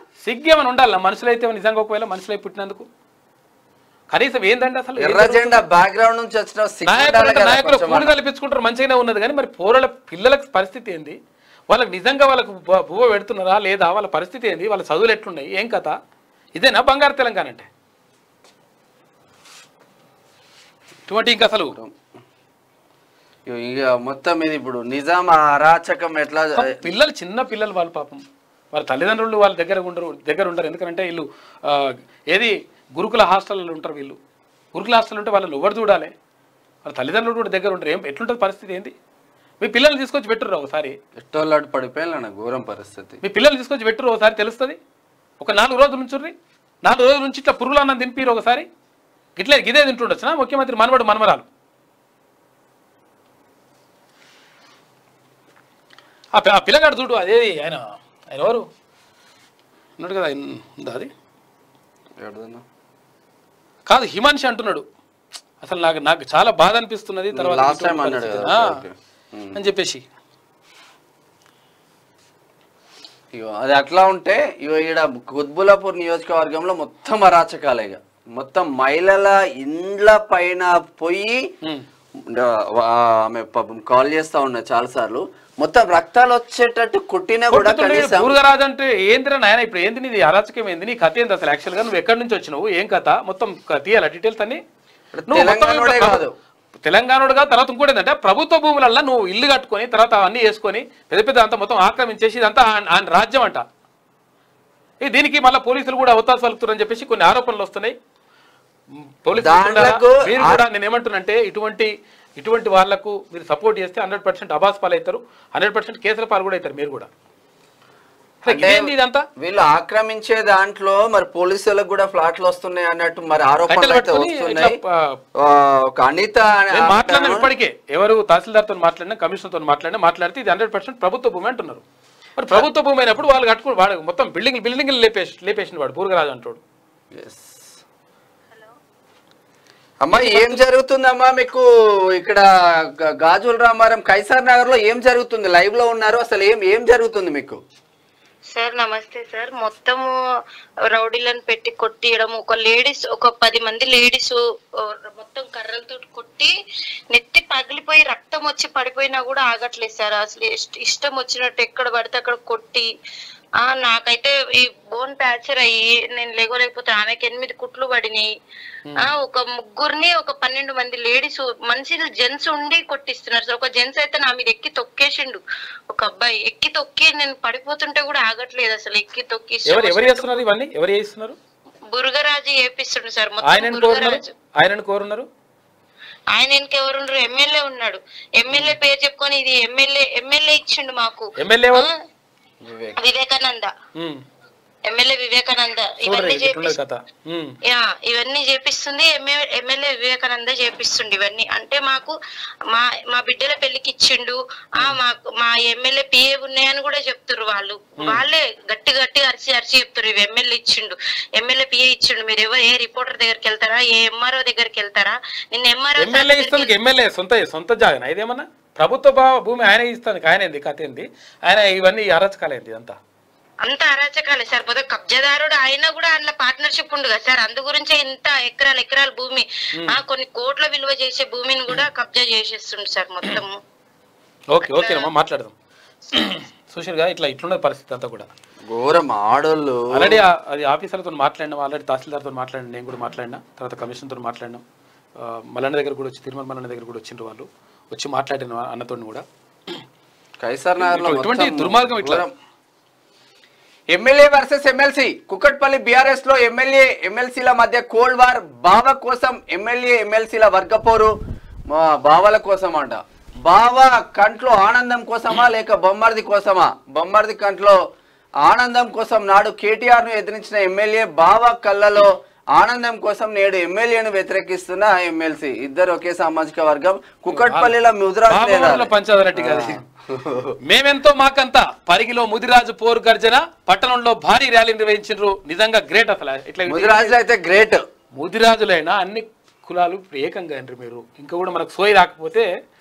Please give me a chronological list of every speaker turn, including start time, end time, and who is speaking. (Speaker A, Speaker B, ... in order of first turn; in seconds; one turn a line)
Speaker A: 0.2-2.9
Speaker A: 4.1-5.6
Speaker B: 5.0-8.1
Speaker A: 6.8-11.2
Speaker A: 11.7-15.9
Speaker A: 16.6-17.7
Speaker A: 21.1-21.8
Speaker B: 23.5-26.8
Speaker A: 26.6-34.2
Speaker A: 34.7-36.1
Speaker A: 36.9-38.9
Speaker A: 39.6-41.0
Speaker B: 41.2-43.2
Speaker A: 43.2-44.8
Speaker A: 45.4-48.7
Speaker A: 49.4-51.5
Speaker A: 56.3-58.7
Speaker A: 60.0-61.1
Speaker B: 62.2-62.6
Speaker A: 63.9-64.8
Speaker A: 65.6-68.7
Speaker B: 67.3-69.6
Speaker A: 69.5-70.0
Speaker B: 73.3-81.5
Speaker B: 82.2-88.4
Speaker A: 87.5-94.6
Speaker B: 95.1-96.3
Speaker A: 95.3-96.2
Speaker A: 96.8-103.6
Speaker A: 105.0-108.0
Speaker A: 109.2-117.1
Speaker B: 109.3-110.6
Speaker A: 118.4-119.3
Speaker B: 118.5-124.8
Speaker A: 123.7-125.2
Speaker B: 125.4-127.5
Speaker A: 126.7-131.8
Speaker A: 132.4-136.6
Speaker B: 137.1-137.8
Speaker B: 140.0-147.6
Speaker A: 140.1-140.6
Speaker C: 148.5-150.1
Speaker C: 150.9-156.5
Speaker C: 157.1-162.9
Speaker C: 163.6-168.3
Speaker A: 168.9-169.1
Speaker C: 169.0-180.4
Speaker A: 179.7-181.4
Speaker C: 181.9-184.3
Speaker A: 183.4-185.3
Speaker C: 186.3-191.9
Speaker A: 188.5-188.8
Speaker A: 191.4-191.9
Speaker B: 192.6-193.0
Speaker C: 193.0-193.7
Speaker A: 194.0-194.2
Speaker C: 194.9-196.8
Speaker A: 196.0-197.6
Speaker C: 197.7-202.2
Speaker C: 202.7-216.7
Speaker A: 216.0-223.0
Speaker C: 223.7-233.6
Speaker A: 234.5-235.5
Speaker C: 234.6-235.1
Speaker A: 236.1-238.3
Speaker B: 238.7-240.2
Speaker A: 239.9-244.6
Speaker A: 245.2-249.2
Speaker B: 250.4-252.3
Speaker A: 250.8-252.2
Speaker B: 253.9-261.1
Speaker B: 261.7-267.8
Speaker B: 268.4-280.6
Speaker A: 277.3-277.7
Speaker A: 278.3-279.8
Speaker A: 280.6-287.2
Speaker B: 286.7-287.8
Speaker A: 288.2-292.5